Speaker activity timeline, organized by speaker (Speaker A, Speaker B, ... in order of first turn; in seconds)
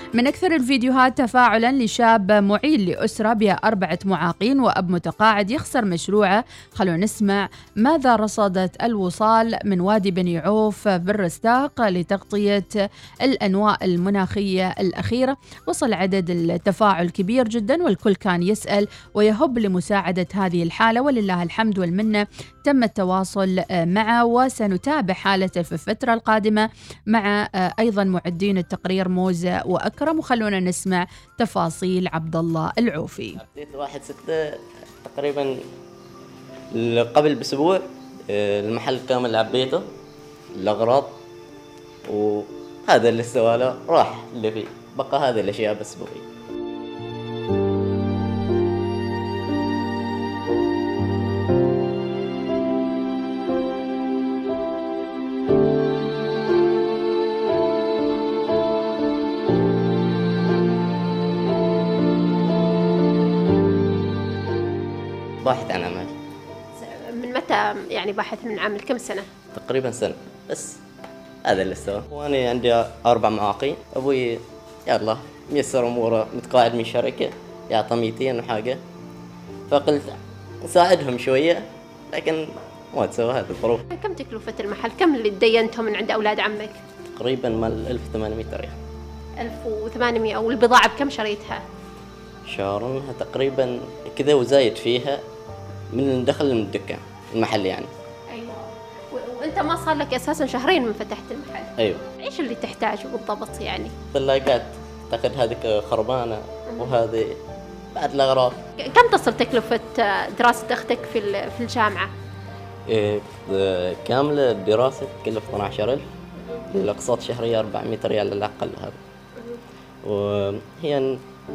Speaker A: 0.2-12.7, 13.2-33.4
Speaker B: 33.4-35.5, 36.7-39.9, 40.5-41.1, 42.1-46.2, 65.4-66.1, 69.5-70.8, 71.4-78.8, 79.7-83.8, 87.1-88.8, 92.5-95.2, 95.9-97.9, 104.1-107.4, 107.9-108.6, 112.9-116.0, 116.7-119.0, 120.0-121.2
Speaker C: 66.8-69.2, 83.9-86.8, 89.4-91.6, 98.3-101.7, 102.2-103.9, 108.8-112.1